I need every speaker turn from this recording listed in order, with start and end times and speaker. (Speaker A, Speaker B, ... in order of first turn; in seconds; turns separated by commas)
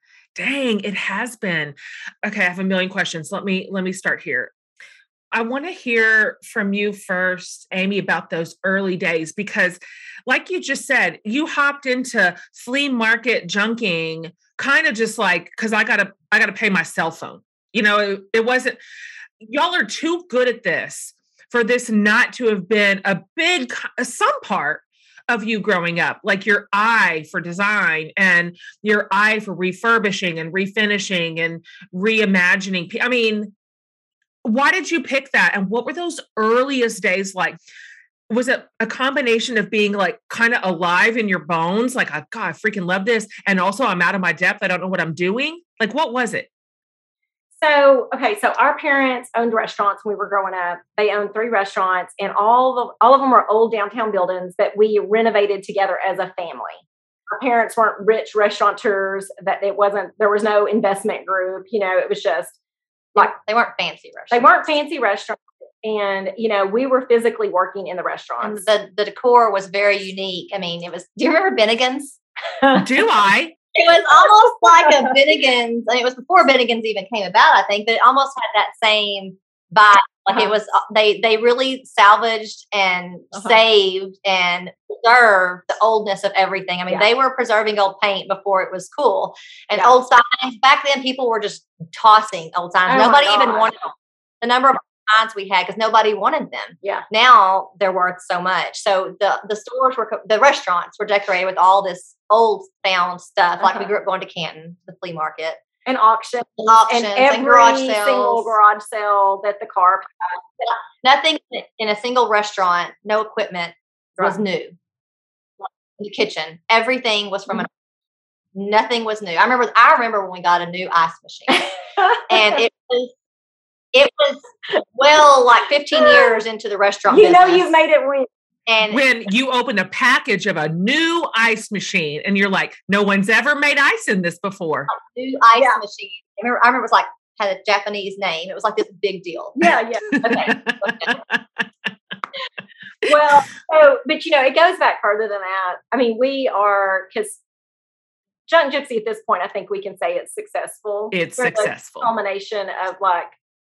Speaker A: 0.3-4.5, Speaker A: 5.3-18.8, Speaker A: 19.4-33.5, Speaker A: 34.4-37.6, Speaker A: 38.3-46.5, Speaker B: 47.6-62.6, Speaker C: 63.2-64.7, Speaker B: 64.3-68.7, Speaker C: 68.4-72.2, Speaker A: 72.7-73.5, Speaker C: 73.8-93.8, Speaker B: 92.9-93.8, Speaker C: 94.4-105.6, Speaker B: 105.9-110.4, Speaker C: 106.6-108.5, Speaker C: 110.6-114.8, Speaker C: 116.0-117.7, Speaker C: 118.5-121.7, Speaker B: 122.0-122.6, Speaker C: 122.3-123.1, Speaker C: 123.9-127.8, Speaker B: 126.0-126.4, Speaker B: 127.1-128.3, Speaker C: 128.7-129.0, Speaker A: 128.9-134.9, Speaker C: 135.1-139.7, Speaker B: 139.6-141.2, Speaker A: 140.2-141.7, Speaker B: 143.1-147.4, Speaker B: 148.5-153.3, Speaker A: 151.1-152.1